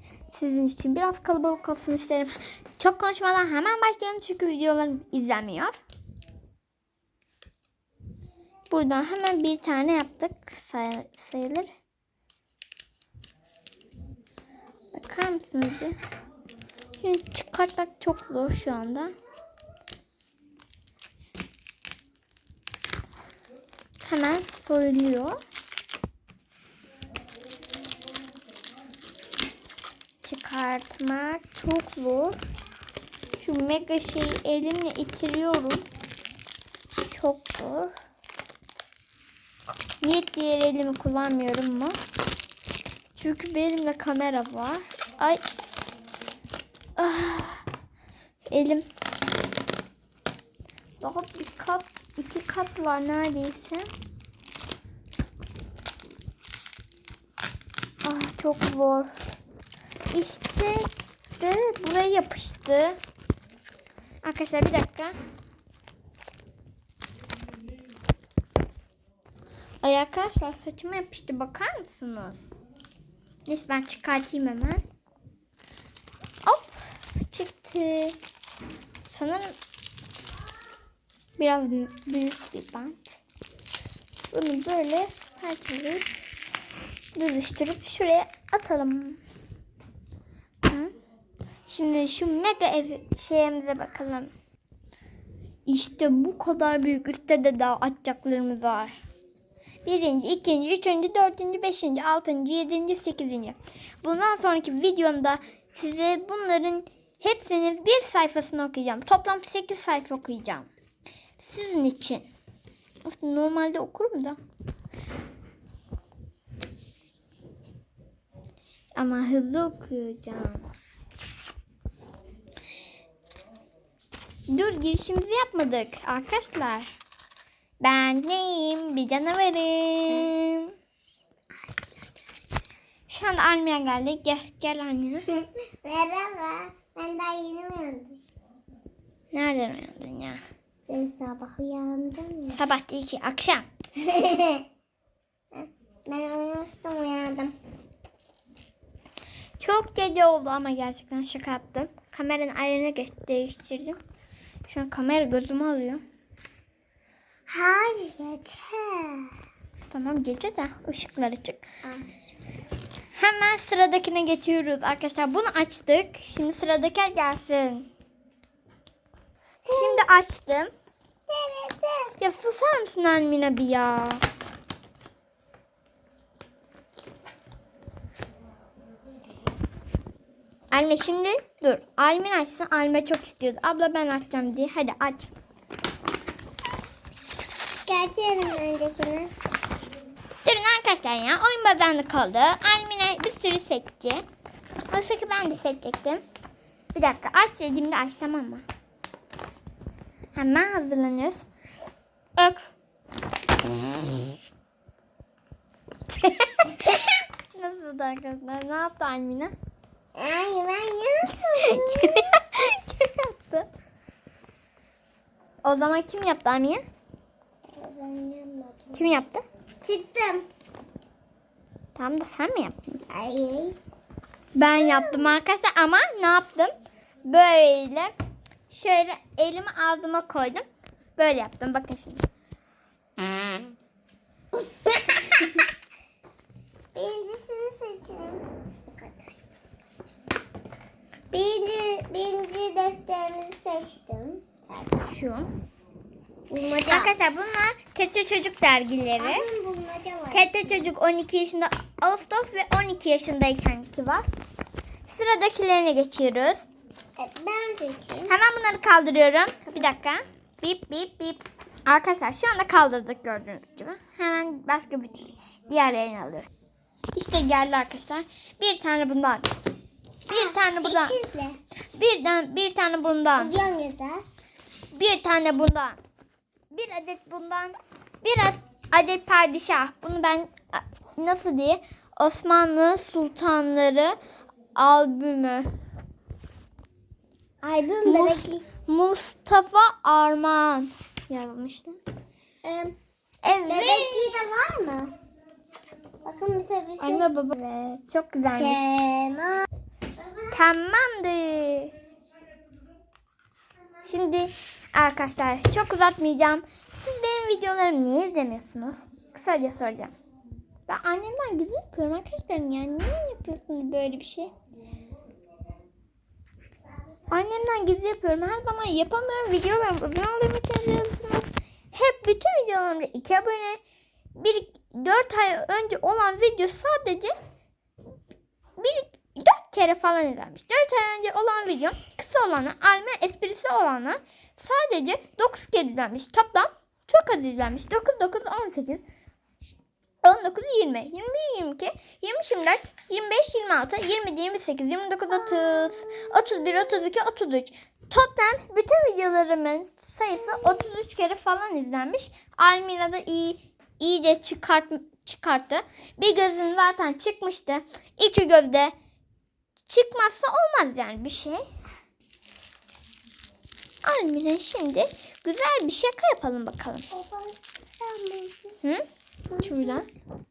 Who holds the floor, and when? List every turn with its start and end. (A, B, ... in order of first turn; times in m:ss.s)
0:00.3-0:05.7 A
0:08.7-0:11.7 A
0:14.9-0:16.0 A
0:17.0-0:19.1 A
0:24.0-0:25.4 A
0:30.2-0:32.4 A
0:33.4-0:35.8 A
0:37.1-0:37.9 A
0:40.0-0:42.0 A
0:43.2-0:45.4 A
0:47.0-0:47.6 A
0:48.5-0:48.8 A
0:51.0-0:53.9 A
0:58.0-0:59.1 A
1:00.1-1:03.0 A
1:04.2-1:05.2 A
1:09.8-1:12.6 A
1:13.5-1:14.8 A
1:16.4-1:18.2 A
1:19.1-1:19.6 A
1:21.4-1:23.1 A
1:24.3-1:26.1 A
1:27.2-1:29.2 A
1:30.6-1:30.9 A
1:31.7-1:34.3 A
1:35.7-1:39.0 A
1:39.8-1:50.7 A
1:51.4-1:52.3 A
1:53.0-1:54.4 A
1:59.0-2:00.7 A
2:04.5-2:06.9 A
2:07.8-2:10.7 A
2:11.6-2:12.2 B
2:13.1-2:15.3 A
2:15.3-2:18.2 B
2:19.3-2:20.4 A
2:20.9-2:22.6 B
2:22.5-2:23.6 A
2:24.0-2:24.6 B
2:25.5-2:27.5 B
2:29.6-2:34.0 A
2:34.7-2:36.0 A
2:37.5-2:39.3 B
2:39.9-2:41.7 A
2:43.2-2:47.9 A
2:49.6-2:50.7 A
2:49.7-2:50.1 B
2:51.3-2:52.1 B
2:52.2-2:54.2 A
3:00.7-3:05.3 A
3:07.8-3:09.3 B
3:10.4-3:14.2 A
3:14.9-3:16.2 A
3:16.9-3:18.6 A
3:20.4-3:21.4 A
3:22.4-3:22.7 A
3:26.1-3:29.5 A
3:30.2-3:32.3 B
3:31.4-3:33.7 A
3:35.6-3:36.8 A
3:37.7-3:39.1 B
3:38.9-3:39.4 A
3:39.8-3:40.5 B
3:42.0-3:43.0 A
3:43.1-3:43.8 B
3:44.5-3:46.7 A
3:44.8-3:45.4 B
3:47.3-3:48.1 A
3:48.7-3:50.6 A
3:51.2-3:52.2 A
3:54.8-3:55.3 B
3:56.9-3:59.4 B
4:01.3-4:05.1 B
4:05.0-4:05.5 A
4:06.5-4:07.1 B
4:06.9-4:09.5 A
4:09.2-4:10.9 B
4:10.3-4:14.2 A
4:15.0-4:16.7 A
4:17.2-4:18.4 B
4:18.3-4:26.5 A
4:27.2-4:29.5 A
4:30.3-4:31.2 A
4:30.3-4:31.6 B
4:32.0-4:33.5 A
4:33.4-4:34.2 B
4:34.9-4:36.0 A
4:36.7-4:44.2 A
4:44.8-4:45.7 A
4:47.6-4:48.6 B
4:48.0-4:52.0 A
4:52.6-4:53.0 B
4:53.4-4:54.2 A
4:53.6-4:55.1 B
4:56.2-4:57.3 B
4:57.0-4:58.9 A
4:58.5-4:59.6 B
5:00.5-5:01.9 A
5:04.0-5:10.1 A
5:10.9-5:14.5 A
5:17.3-5:23.8 A
5:24.4-5:27.3 A
5:28.8-5:39.0 A
5:40.2-5:58.9 A
5:59.9-6:01.6 A
6:04.0-6:07.1 A
6:07.1-6:08.8 B
6:09.5-6:10.0 B
6:09.6-6:10.1 A